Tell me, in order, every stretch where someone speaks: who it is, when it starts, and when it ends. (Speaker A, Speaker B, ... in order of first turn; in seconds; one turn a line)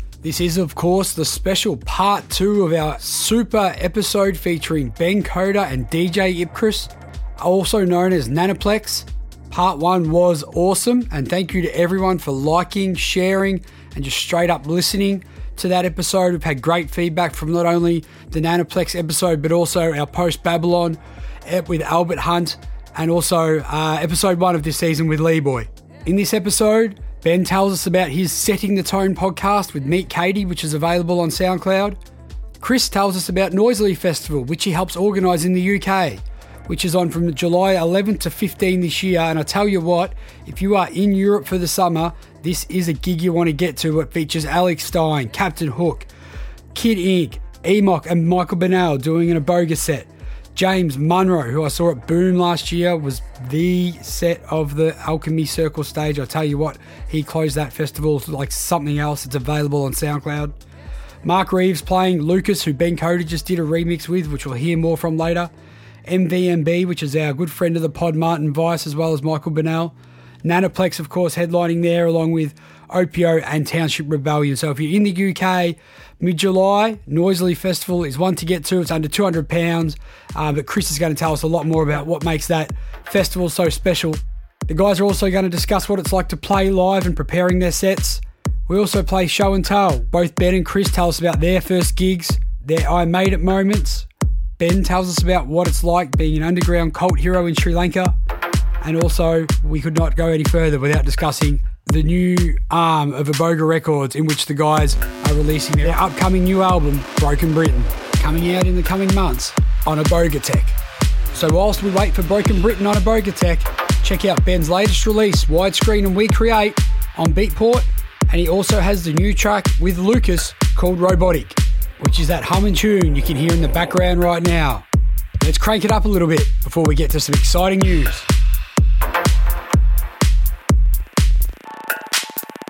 Speaker A: 0.2-32.0
Speaker A: 32.6-46.1
Speaker A: 46.7-60.5
Speaker A: 61.2-65.5
Speaker A: 66.0-69.9
Speaker A: 70.4-94.1
Speaker A: 94.6-98.1
Speaker A: 98.8-110.8
Speaker A: 111.3-124.8
Speaker A: 125.4-128.2